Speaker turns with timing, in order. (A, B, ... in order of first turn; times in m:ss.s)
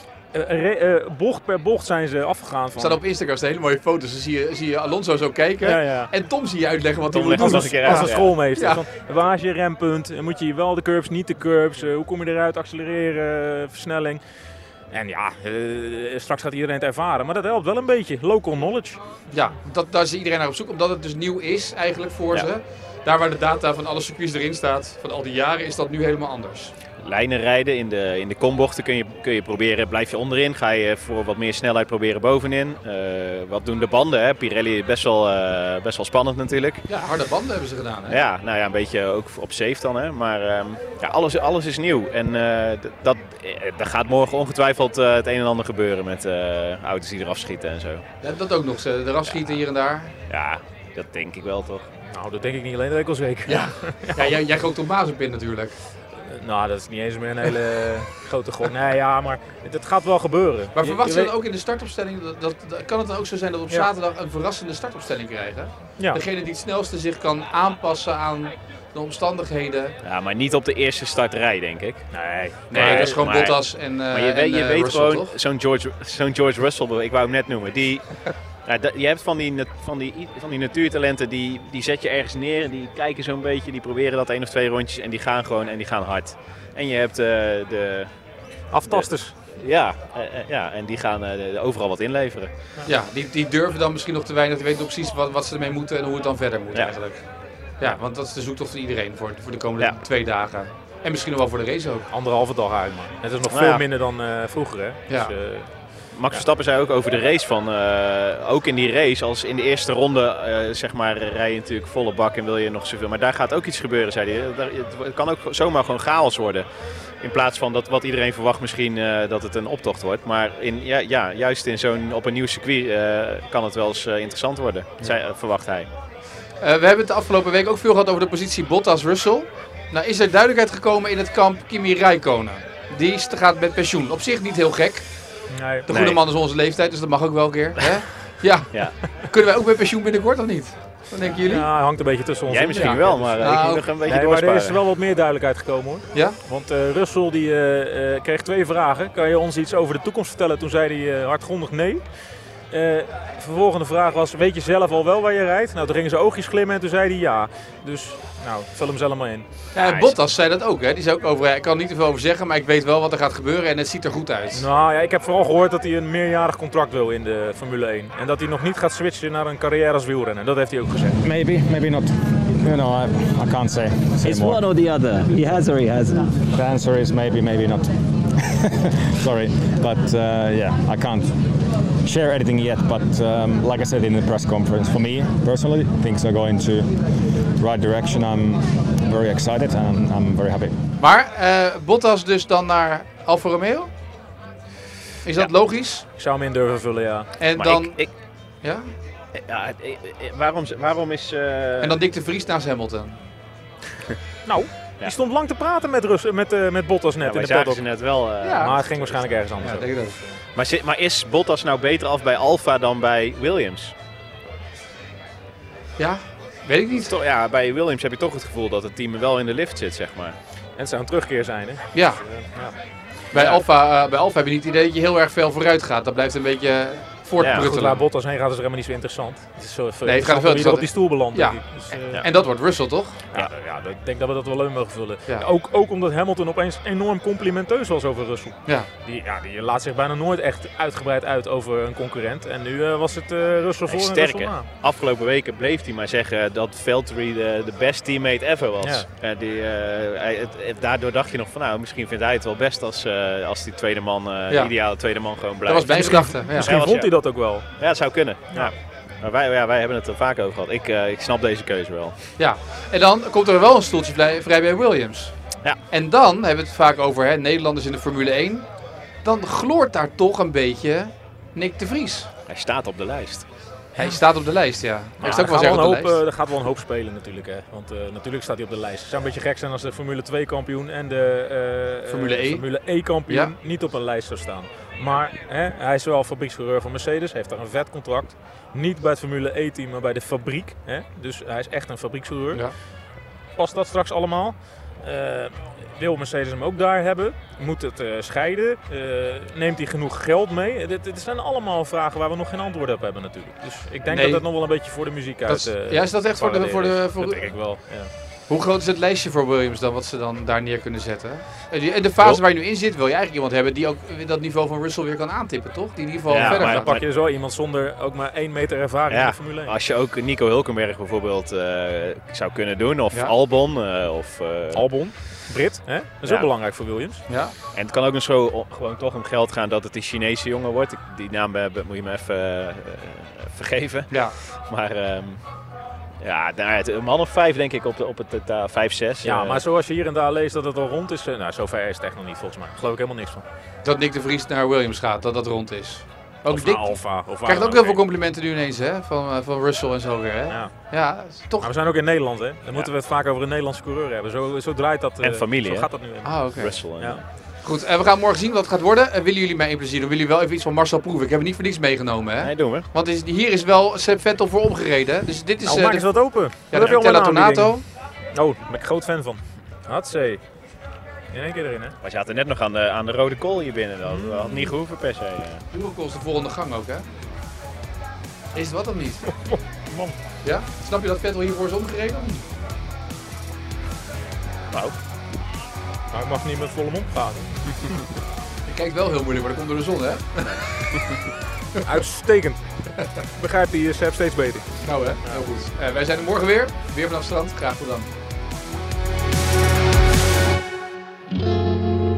0:00.3-0:03.0 A
0:02.8-0:08.8 B
0:05.6-0:06.1 A
0:07.1-0:08.3 C
0:07.3-0:14.2 A
0:14.9-0:19.0 A
0:19.3-0:26.7 B
0:27.0-0:36.8 C
0:36.9-0:38.2 B
0:38.1-0:48.0 C
0:48.2-0:50.2 B
0:50.3-0:51.9 C
0:52.1-0:54.4 A
0:53.5-0:55.7 B
0:56.2-1:01.3 A
1:00.7-1:09.9 B
1:10.0-1:12.0 C
1:12.1-1:13.2 A
1:12.7-1:15.3 B
1:12.7-1:18.1 C
1:18.6-1:28.1 C
1:28.7-1:29.3 A
1:28.9-1:32.5 C
1:32.8-1:37.2 B
1:37.8-1:42.1 B
1:42.1-1:45.7 A
1:43.5-1:43.8 C
1:46.1-1:56.6 C
1:57.2-2:05.9 C
2:06.6-2:15.0 B
2:15.5-2:15.9 A
2:15.9-2:21.7 B
2:15.9-2:16.2 C
2:21.5-2:32.0 A
2:22.5-2:24.8 C
2:22.7-2:23.9 B
2:32.7-2:39.4 A
2:39.7-2:44.7 B
2:39.8-2:40.2 C
2:44.5-2:51.2 A
2:51.2-2:54.7 D
2:54.2-2:56.3 E
2:56.5-2:57.9 D
2:58.4-3:01.4 D
3:02.0-3:06.9 D
3:07.6-3:10.7 D
3:11.0-3:13.9 B
3:15.2-3:16.0 B
3:16.2-3:17.3 A
3:17.4-3:18.0 B
3:17.6-3:18.1 C
3:19.4-3:22.0 C
3:21.8-3:23.2 B
3:24.5-3:28.0 A
3:27.2-3:29.4 C
3:28.4-3:28.8 B
3:28.6-3:29.9 A
3:29.6-3:30.2 B
3:30.5-3:33.9 C
3:36.0-3:37.1 B
3:37.0-3:40.4 C
3:40.8-3:42.8 A
3:41.9-3:42.2 B
3:43.3-3:48.0 B
3:43.3-3:43.6 A
3:47.4-3:47.7 C
3:47.4-3:52.2 A
3:50.0-3:53.2 B
3:53.3-4:04.6 A
4:03.9-4:16.1 C
4:08.8-4:09.1 A
4:15.6-4:16.7 B
4:15.9-4:17.6 A
4:16.6-4:17.1 C
4:17.8-4:22.2 C
4:22.4-4:25.3 B
4:25.9-4:28.6 B
4:29.2-4:32.3 B
4:32.5-4:33.4 C
4:34.0-4:36.2 B
4:35.2-4:52.6 A
4:42.1-4:42.6 B
4:43.3-4:43.5 B
4:53.6-5:08.1 A
5:04.1-5:04.4 B
5:05.4-5:07.5 B
5:08.5-5:16.9 B
5:16.3-5:17.0 C
5:16.4-5:19.7 A
5:19.1-5:24.8 C
5:24.7-5:27.2 A
5:27.3-5:27.5 B
5:27.7-5:34.1 C
5:34.1-5:34.3 B
5:34.6-5:35.4 C
5:36.2-5:39.6 C
5:39.2-5:43.4 A
5:43.8-5:51.7 B
5:46.5-5:48.0 A
5:51.6-5:57.2 A
5:55.2-5:55.9 C
5:56.2-5:56.8 B
5:56.6-5:57.2 C
5:57.6-6:06.1 B
6:02.4-6:02.9 C
6:05.6-6:07.8 A
6:06.7-6:07.8 B
6:08.3-6:10.4 A
6:11.3-6:11.9 A
6:12.0-6:15.6 C
6:14.0-6:14.7 A
6:15.7-6:17.0 B
6:18.5-6:19.2 B
6:19.5-6:20.2 A
6:20.4-6:22.4 B
6:26.1-6:28.0 A
6:28.6-6:30.6 B
6:31.8-6:32.6 A
6:33.4-6:34.7 A
6:34.8-6:38.1 B